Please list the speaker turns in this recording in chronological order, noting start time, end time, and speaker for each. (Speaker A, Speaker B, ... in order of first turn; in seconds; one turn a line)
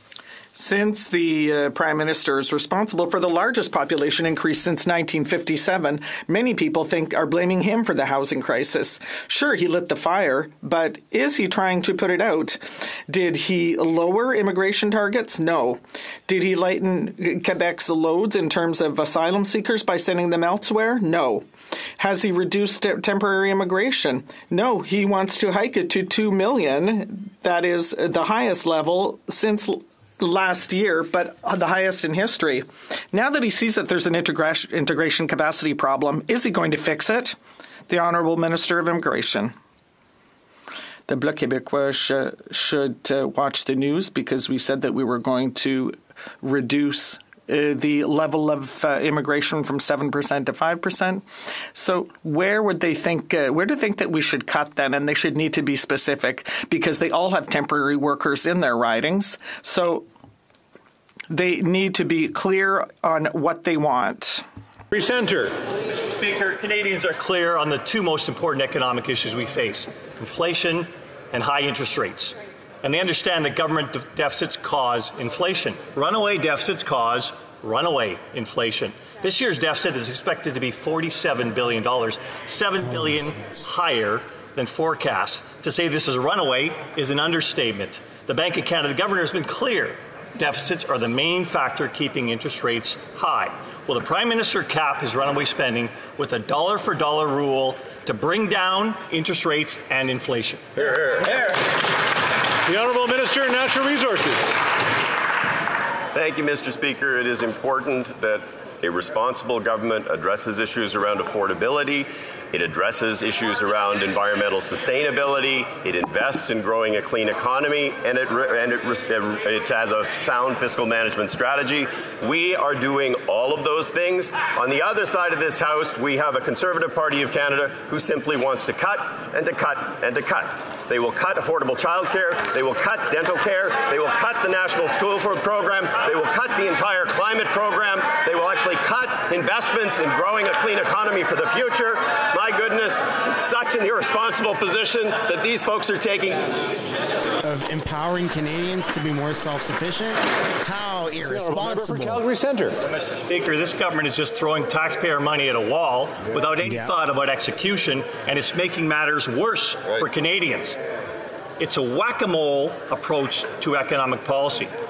Speaker A: 0.5-21.4
Speaker A: 22.0-37.4
Speaker A: 37.9-39.5
Speaker A: 41.1-60.0
Speaker A: 61.3-64.4
Speaker B: 64.9-65.5
Speaker C: 66.3-69.8
Speaker C: 70.3-70.8
Speaker C: 71.5-72.3
Speaker C: 73.0-77.3
Speaker C: 77.8-78.9
Speaker C: 79.4-82.2
Speaker C: 82.7-83.2
Speaker D: 82.8-83.6
Speaker C: 83.9-84.2
Speaker C: 84.7-87.8
Speaker C: 88.4-89.9
Speaker C: 90.7-100.6
Speaker B: 102.7-104.5
Speaker E: 106.1-146.5
Speaker D: 147.4-152.2
Speaker B: 151.3-152.8
Speaker C: 153.3-160.7
Speaker D: 156.6-156.9
Speaker C: 161.6-164.7